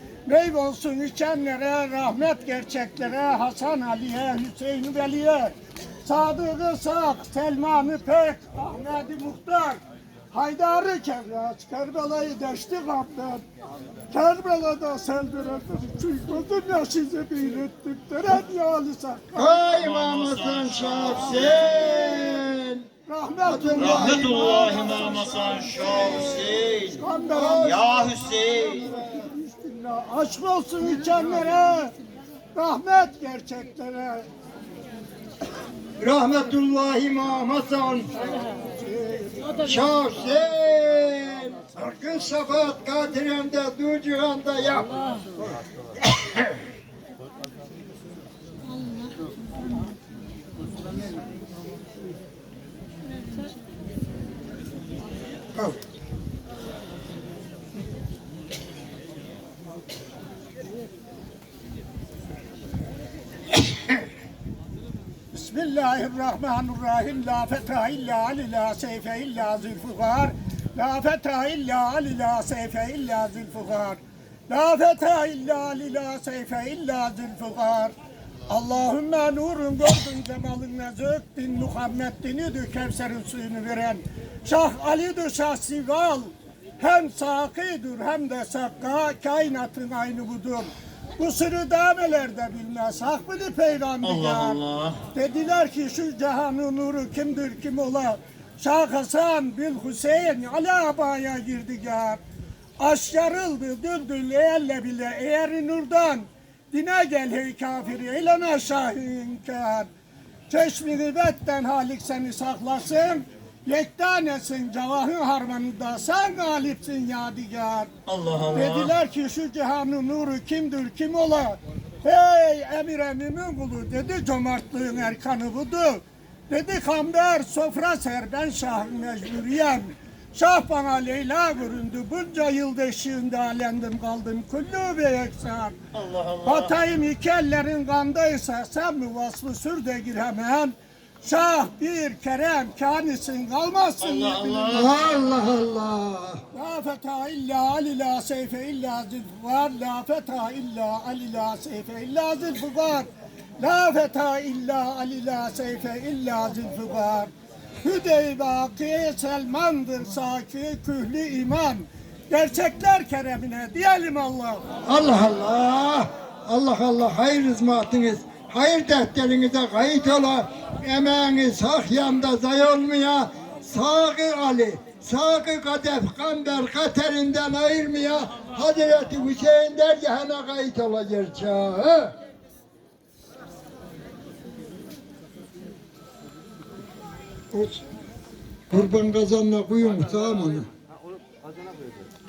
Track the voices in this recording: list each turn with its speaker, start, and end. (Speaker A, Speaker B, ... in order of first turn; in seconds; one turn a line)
Speaker A: 0.2-9.8
Speaker A: 10.3-13.4
Speaker A: 14.1-19.6
Speaker B: 19.3-22.8
Speaker C: 19.8-22.1
Speaker A: 23.1-24.7
Speaker B: 23.4-26.3
Speaker C: 23.8-27.0
Speaker A: 27.0-31.9
Speaker B: 27.3-27.8
Speaker C: 27.6-28.9
Speaker A: 32.5-34.3
Speaker B: 36.0-38.1
Speaker A: 38.8-39.6
Speaker B: 39.6-45.0
Speaker A: 65.3-77.9
Speaker A: 78.5-102.2
Speaker C: 94.0-95.0
Speaker A: 102.8-109.9
Speaker A: 110.5-117.9
Speaker C: 118.0-118.9
Speaker A: 118.5-135.8
Speaker C: 135.9-136.8
Speaker A: 136.4-144.8
Speaker C: 144.0-144.9
Speaker B: 144.7-146.4
Speaker A: 146.5-153.1
Speaker A: 153.6-157.3
Speaker A: 157.8-164.6
Speaker B: 164.9-182.1
Speaker B: 187.5-187.8
Speaker B: 188.7-190.7